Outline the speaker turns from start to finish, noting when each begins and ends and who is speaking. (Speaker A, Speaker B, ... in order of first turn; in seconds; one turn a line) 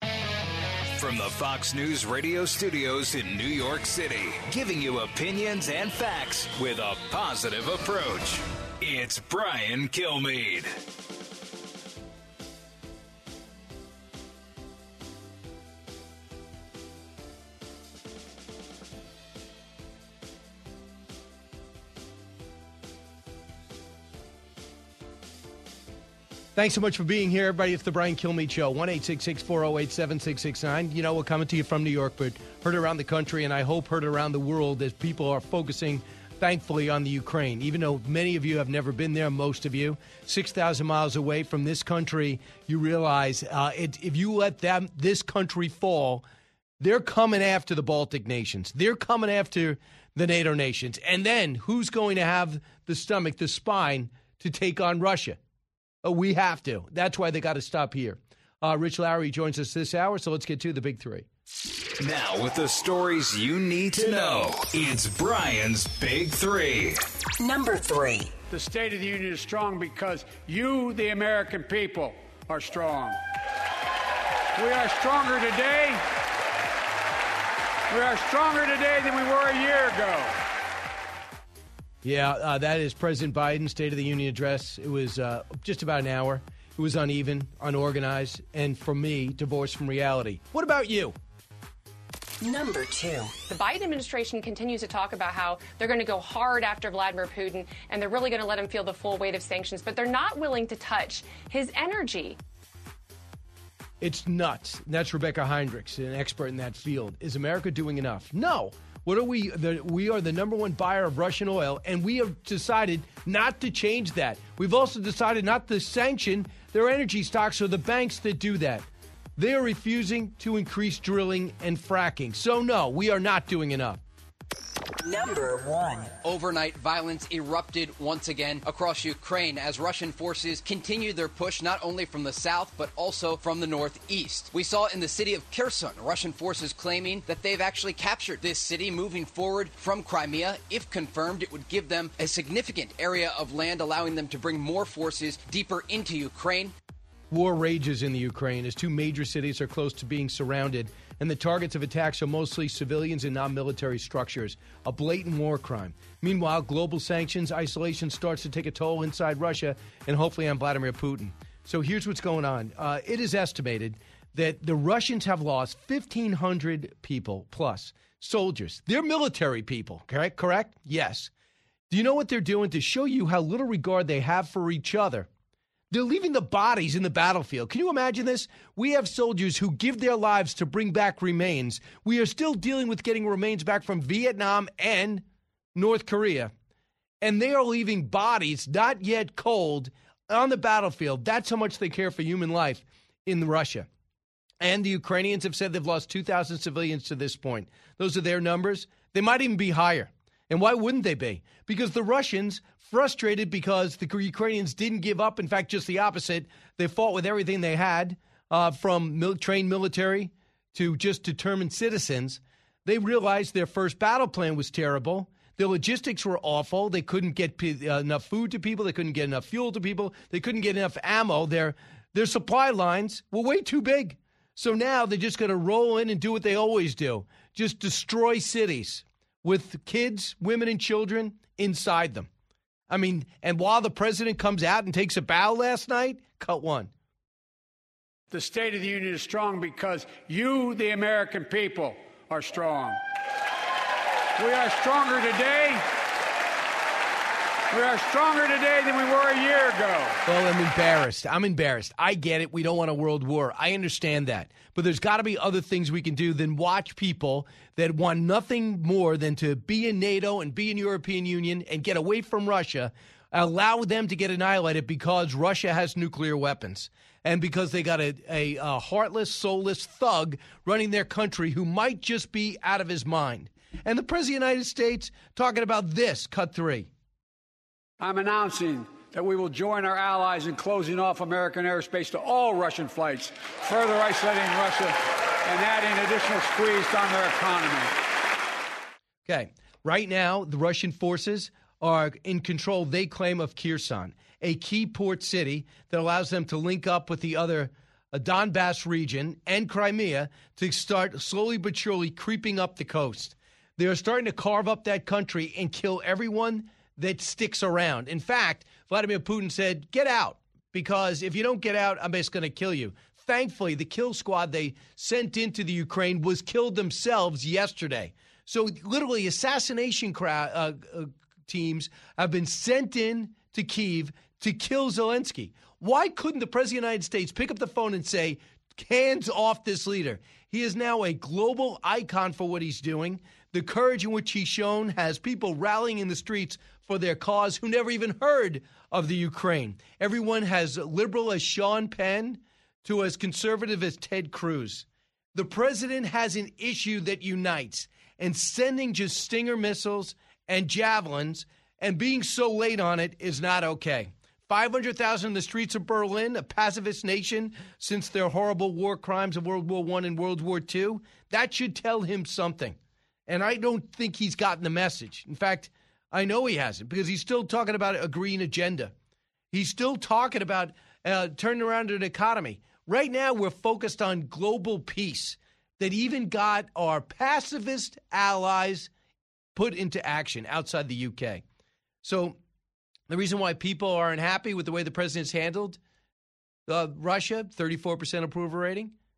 Speaker A: 1.0-10.7
Speaker B: 26.6-46.2
Speaker B: 46.8-55.4
Speaker B: 56.0-61.3
Speaker A: 62.0-67.0
Speaker C: 67.4-68.3
Speaker D: 68.5-73.2
Speaker D: 74.6-76.0
Speaker D: 77.9-80.4
Speaker B: 82.0-91.2
Speaker C: 92.4-93.3
Speaker E: 93.5-102.4
Speaker B: 104.0-124.0
Speaker C: 125.0-126.2
Speaker F: 126.2-146.8
Speaker B: 147.3-171.3
Speaker B: 171.9-175.3
Speaker B: 175.9-185.2
Speaker B: 185.8-186.5
Speaker B: 187.2-193.9
Speaker B: 194.6-232.3
Speaker B: 232.9-236.9
Speaker D: 238.3-243.0
Speaker D: 244.4-245.8
Speaker D: 247.7-250.2
Speaker B: 250.3-276.9
Speaker D: 278.0-288.0
Speaker B: 289.3-368.9
Speaker B: 369.5-378.9
Speaker B: 379.6-381.4
Speaker B: 382.0-382.4
Speaker B: 383.1-385.8
Speaker B: 386.7-388.9